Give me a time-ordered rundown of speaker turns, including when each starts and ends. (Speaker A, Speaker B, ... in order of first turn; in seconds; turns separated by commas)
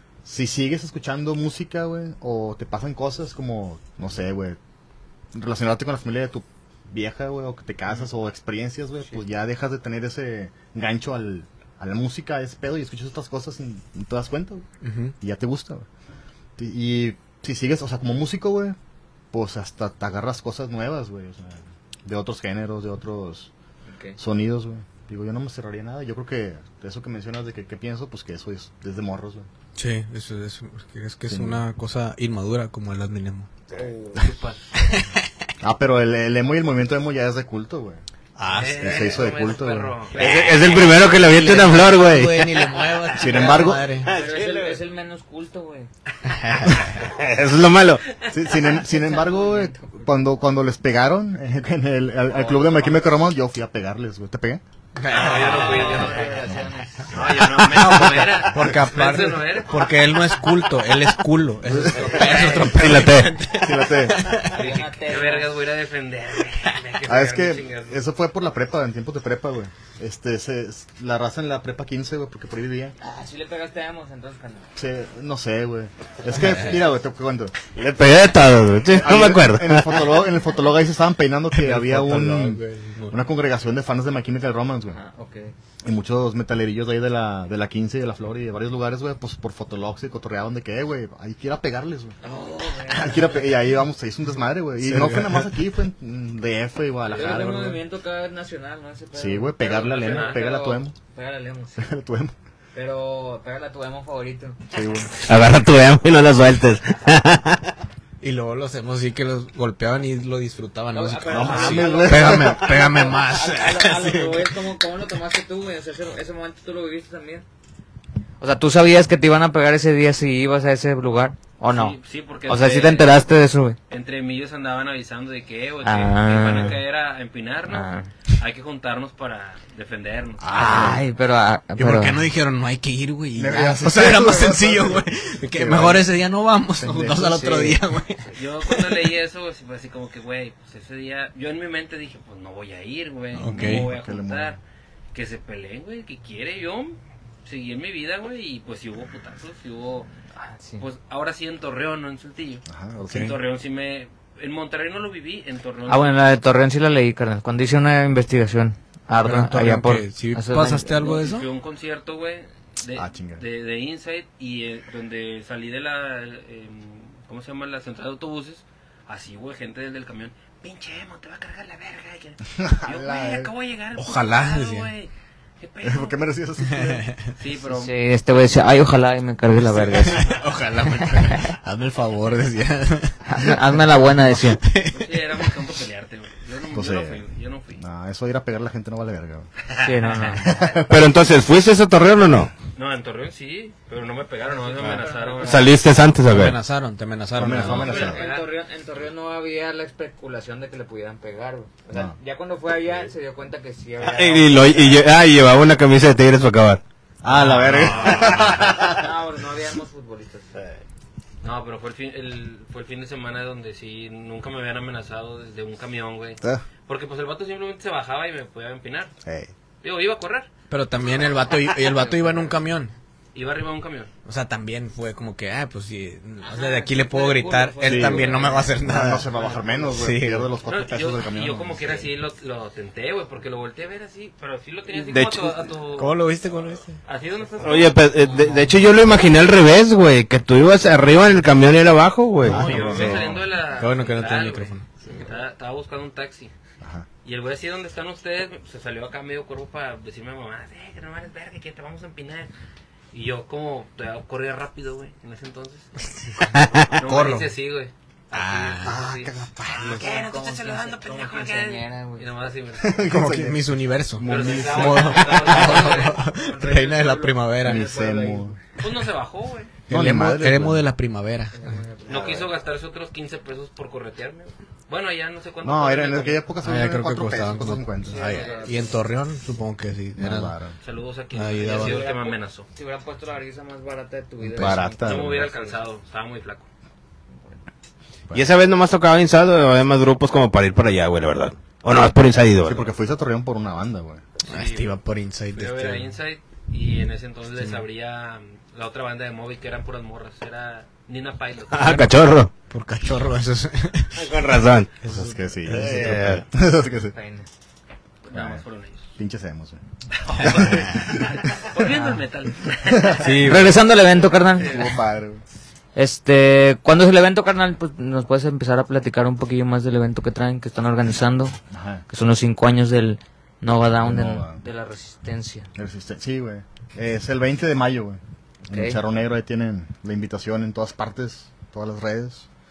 Speaker A: 0.2-4.6, Speaker A: 5.3-14.6, Speaker B: 14.8-15.1, Speaker A: 15.2-15.9, Speaker A: 16.6-18.8, Speaker A: 19.3-23.5, Speaker A: 24.2-29.5, Speaker B: 29.8-33.5, Speaker A: 31.3-31.6, Speaker C: 33.8-34.2, Speaker D: 34.2-34.5, Speaker B: 34.7-35.3, Speaker A: 35.6-38.0, Speaker B: 38.4-39.2, Speaker D: 38.5-41.6, Speaker A: 38.8-40.0, Speaker E: 40.1-42.7, Speaker B: 41.1-44.1, Speaker A: 43.1-43.9, Speaker E: 44.0-44.8, Speaker C: 44.1-45.9, Speaker B: 46.2-47.0, Speaker E: 46.9-48.0, Speaker A: 48.3-54.6, Speaker C: 48.8-49.9, Speaker D: 52.4-52.7, Speaker B: 55.0-56.1, Speaker D: 55.1-56.4, Speaker C: 55.1-57.2, Speaker A: 56.4-58.0, Speaker D: 57.1-59.8, Speaker B: 57.6-64.6, Speaker A: 61.6-62.1, Speaker C: 61.9-62.8, Speaker D: 62.0-62.7, Speaker E: 62.7-63.3, Speaker A: 63.6-64.3, Speaker C: 64.5-65.5, Speaker D: 64.5-68.0, Speaker A: 67.0-73.0, Speaker C: 73.0-74.7, Speaker A: 74.8-77.7, Speaker B: 76.3-76.8, Speaker E: 77.7-80.0, Speaker A: 78.9-85.0, Speaker B: 81.5-83.2, Speaker C: 84.9-85.5, Speaker A: 85.8-92.2, Speaker C: 92.2-93.4, Speaker A: 92.8-97.8, Speaker B: 94.8-95.5, Speaker C: 97.1-101.9, Speaker A: 99.1-100.9, Speaker D: 99.7-100.5, Speaker A: 101.8-102.3, Speaker C: 102.7-104.6, Speaker A: 104.7-105.1, Speaker E: 105.2-107.7, Speaker B: 108.2-114.5, Speaker C: 110.9-117.4, Speaker A: 111.3-113.0, Speaker D: 111.5-111.9, Speaker C: 118.4-123.8, Speaker D: 121.7-123.2, Speaker D: 123.9-130.4, Speaker C: 125.8-126.8, Speaker C: 127.7-128.1, Speaker A: 130.4-131.0, Speaker B: 130.5-131.0, Speaker C: 130.5-132.2, Speaker B: 131.8-139.1, Speaker A: 133.3-136.1, Speaker A: 136.8-137.7, Speaker D: 138.3-144.6, Speaker B: 143.3-143.9, Speaker A: 143.4-144.6, Speaker D: 145.1-150.1, Speaker C: 150.6-150.8, Speaker D: 150.8-156.2, Speaker A: 152.7-153.3, Speaker C: 155.9-161.1, Speaker B: 159.2-161.5, Speaker D: 161.0-176.2, Speaker A: 162.9-163.4, Speaker A: 172.5-173.5, Speaker B: 173.9-174.9, Speaker A: 175.8-177.1, Speaker B: 176.6-177.3, Speaker D: 177.3-177.9, Speaker C: 177.7-180.4, Speaker B: 179.8-183.6, Speaker C: 181.2-181.5, Speaker C: 183.3-184.6, Speaker B: 184.3-185.5, Speaker D: 184.9-187.8, Speaker A: 186.7-187.2, Speaker A: 187.8-189.5, Speaker D: 189.7-190.3, Speaker C: 189.7-190.5, Speaker A: 190.3-191.1, Speaker E: 190.8-192.5, Speaker D: 192.7-195.7, Speaker C: 194.7-195.6, Speaker E: 195.4-196.6, Speaker B: 196.2-198.0, Speaker A: 197.3-198.2, Speaker D: 197.6-198.5, Speaker C: 197.8-205.0, Speaker E: 204.0-206.8, Speaker A: 207.2-209.1, Speaker D: 207.5-208.7, Speaker E: 208.2-208.6, Speaker C: 208.7-210.5, Speaker D: 211.4-219.1, Speaker A: 219.2-219.5, Speaker D: 219.8-220.5, Speaker B: 220.7-222.9, Speaker C: 221.9-222.4, Speaker D: 223.3-224.1, Speaker B: 224.2-229.3, Speaker C: 226.5-228.7, Speaker A: 227.8-232.1, Speaker D: 228.2-228.5, Speaker D: 229.3-229.9, Speaker B: 229.9-230.5, Speaker D: 230.7-236.2, Speaker E: 234.9-235.6, Speaker B: 235.9-237.0, Speaker D: 237.0-238.1, Speaker E: 237.6-242.7, Speaker C: 238.2-238.7, Speaker A: 242.4-243.5, Speaker B: 242.5-243.2, Speaker D: 242.5-246.5, Speaker B: 243.8-245.2, Speaker A: 246.8-247.1, Speaker D: 247.2-252.5, Speaker D: 253.1-256.0, Speaker B: 256.3-257.5, Speaker D: 256.7-262.9, Speaker B: 258.3-259.0, Speaker A: 258.8-260.1, Speaker C: 258.9-259.2, Speaker C: 259.8-262.2, Speaker A: 262.8-265.9, Speaker B: 263.1-267.9, Speaker D: 264.2-267.4, Speaker C: 265.5-266.1, Speaker A: 267.6-268.6, Speaker C: 267.6-268.5, Speaker D: 268.8-269.7, Speaker B: 269.9-271.8, Speaker A: 269.9-270.8, Speaker C: 271.6-272.4, Speaker D: 272.1-276.4, Speaker A: 272.1-272.4, Speaker A: 275.6-278.3, Speaker B: 276.6-280.6, Speaker C: 278.0-279.0, Speaker D: 278.4-278.7, Speaker A: 280.2-280.7, Speaker D: 280.8-282.7, Speaker B: 281.3-282.0, Speaker C: 281.6-285.8, Speaker B: 284.4-284.8, Speaker A: 284.6-285.5, Speaker D: 285.0-286.6, Speaker E: 288.3-292.9, Speaker A: 292.6-294.2, Speaker D: 294.4-294.9, Speaker B: 294.5-296.1, Speaker D: 295.6-302.0, Speaker B: 297.6-297.8, Speaker E: 301.7-302.5, Speaker B: 301.8-304.2, Speaker E: 304.1-304.9, Speaker B: 305.0-306.4, Speaker A: 305.1-307.1, Speaker E: 305.8-306.4, Speaker C: 307.1-307.5, Speaker D: 308.2-309.0, Speaker A: 308.3-308.6, Speaker A: 309.2-309.8, Speaker D: 310.2-313.7, Speaker A: 310.4-311.5, Speaker B: 310.5-310.7, Speaker B: 313.1-313.8, Speaker C: 313.2-314.9, Speaker A: 314.6-315.4, Speaker C: 315.9-321.6, Speaker A: 321.7-322.0, Speaker C: 322.1-325.7, Speaker A: 324.0-324.6, Speaker A: 325.7-332.5, Speaker C: 328.7-329.0